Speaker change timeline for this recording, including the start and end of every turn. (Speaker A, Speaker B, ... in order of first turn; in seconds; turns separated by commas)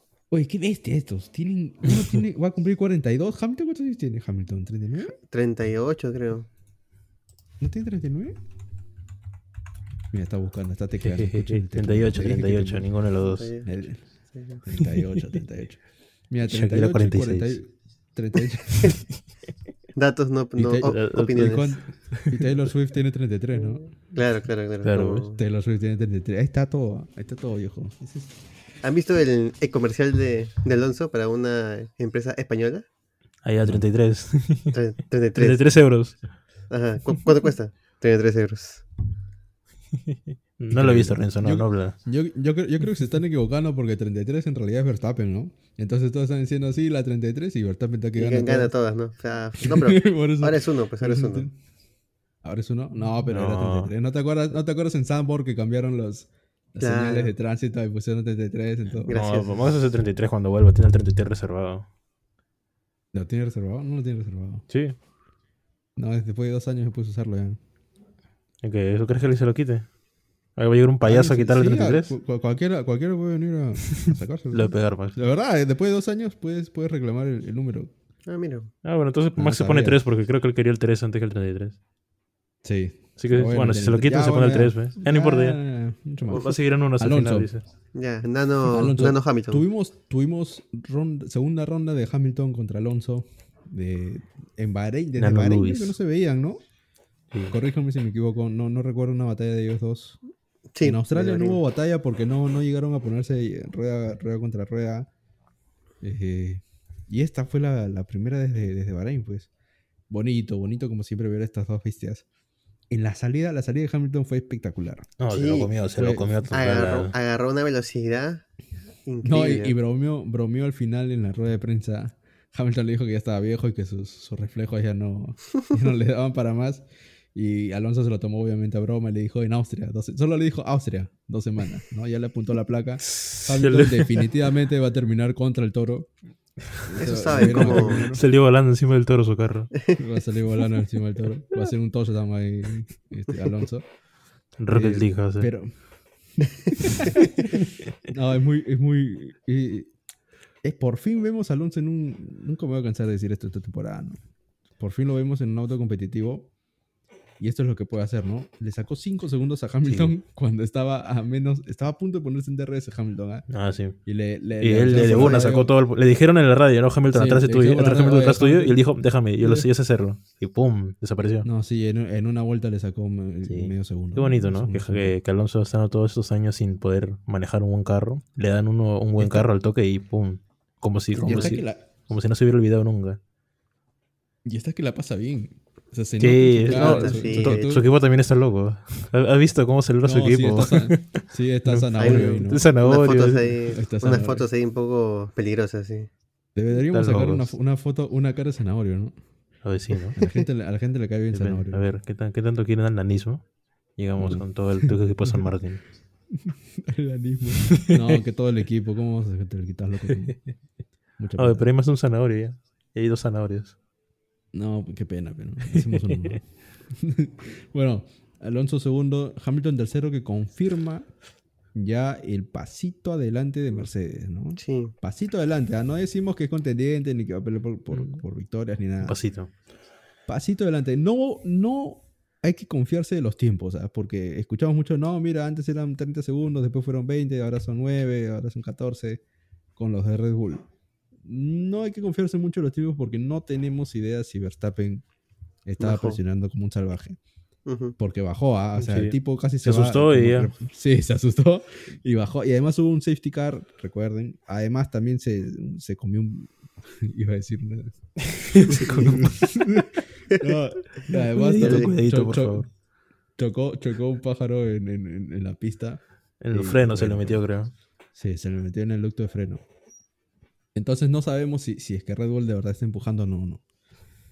Speaker A: 0.3-5.2, Speaker B: 5.3-6.5, Speaker A: 7.6-8.4, Speaker A: 10.1-12.9, Speaker C: 11.0-13.5, Speaker B: 13.2-14.6, Speaker A: 13.6-14.0, Speaker A: 14.6-19.0, Speaker C: 14.8-15.2, Speaker C: 16.4-17.6, Speaker B: 19.9-21.8, Speaker A: 20.6-23.9, Speaker C: 20.8-22.5, Speaker B: 23.9-25.4, Speaker C: 24.8-25.3, Speaker A: 25.4-28.4, Speaker B: 28.8-32.9, Speaker C: 33.4-34.8, Speaker B: 34.7-35.6, Speaker C: 35.4-36.2, Speaker B: 36.7-38.9, Speaker C: 40.1-42.0, Speaker A: 40.7-48.7, Speaker B: 48.2-51.5, Speaker A: 49.6-51.5, Speaker A: 52.4-59.2, Speaker C: 53.3-53.9, Speaker B: 56.8-57.3, Speaker C: 59.0-61.9, Speaker B: 59.1-59.6, Speaker A: 63.1-64.7, Speaker C: 64.7-65.0, Speaker A: 66.0-67.6, Speaker C: 68.6-69.9, Speaker C: 70.6-72.1, Speaker A: 71.0-77.9, Speaker C: 74.0-75.2, Speaker B: 78.3-78.7, Speaker C: 78.8-81.8, Speaker A: 79.4-80.0, Speaker A: 82.6-87.5, Speaker C: 83.2-85.6, Speaker C: 86.3-87.6, Speaker B: 87.9-89.6, Speaker A: 88.7-96.6, Speaker C: 95.2-96.0, Speaker A: 97.5-100.2, Speaker B: 100.8-101.6, Speaker A: 100.8-105.1, Speaker A: 106.0-109.5, Speaker A: 110.1-112.2, Speaker A: 112.9-115.1, Speaker C: 115.2-117.2, Speaker B: 115.3-115.7, Speaker A: 115.9-116.5, Speaker B: 116.5-118.5, Speaker B: 119.0-119.8, Speaker A: 119.2-136.1, Speaker C: 133.1-134.3, Speaker A: 136.8-138.2, Speaker B: 136.9-138.1, Speaker C: 137.3-139.7, Speaker A: 140.0-143.9, Speaker C: 144.6-145.5, Speaker A: 144.7-145.7, Speaker A: 146.4-149.9, Speaker A: 150.6-154.2, Speaker A: 154.8-156.5, Speaker A: 157.4-163.5, Speaker C: 159.9-160.1, Speaker C: 163.5-164.0, Speaker A: 164.1-165.7, Speaker C: 164.6-171.5, Speaker A: 167.1-168.8, Speaker A: 169.4-169.7, Speaker A: 171.4-175.2, Speaker C: 173.5-183.2, Speaker A: 179.2-179.5, Speaker A: 181.2-181.9, Speaker A: 184.4-187.9, Speaker C: 186.2-193.6, Speaker B: 186.7-187.7, Speaker A: 190.0-192.7, Speaker B: 192.0-196.1, Speaker A: 193.7-194.5, Speaker A: 196.6-199.1, Speaker C: 196.9-197.5, Speaker C: 199.6-200.2, Speaker A: 200.2-201.9, Speaker C: 201.3-203.4, Speaker C: 204.0-205.8, Speaker A: 204.2-205.5, Speaker A: 206.3-210.4, Speaker C: 207.6-208.2, Speaker A: 211.2-211.7, Speaker C: 211.4-213.8, Speaker A: 214.5-221.1, Speaker C: 215.7-216.3, Speaker A: 221.8-229.2, Speaker B: 224.6-224.9, Speaker C: 227.9-228.2, Speaker C: 229.0-229.5, Speaker A: 230.3-239.2, Speaker A: 239.8-240.7, Speaker A: 241.2-245.1, Speaker A: 245.7-247.2, Speaker B: 245.8-246.2, Speaker B: 247.7-247.9, Speaker A: 248.0-262.7, Speaker C: 248.8-250.5, Speaker C: 258.4-259.5, Speaker C: 261.1-262.7, Speaker B: 261.6-261.9, Speaker A: 263.4-267.4, Speaker C: 266.4-267.7, Speaker A: 268.1-269.6, Speaker A: 270.8-273.6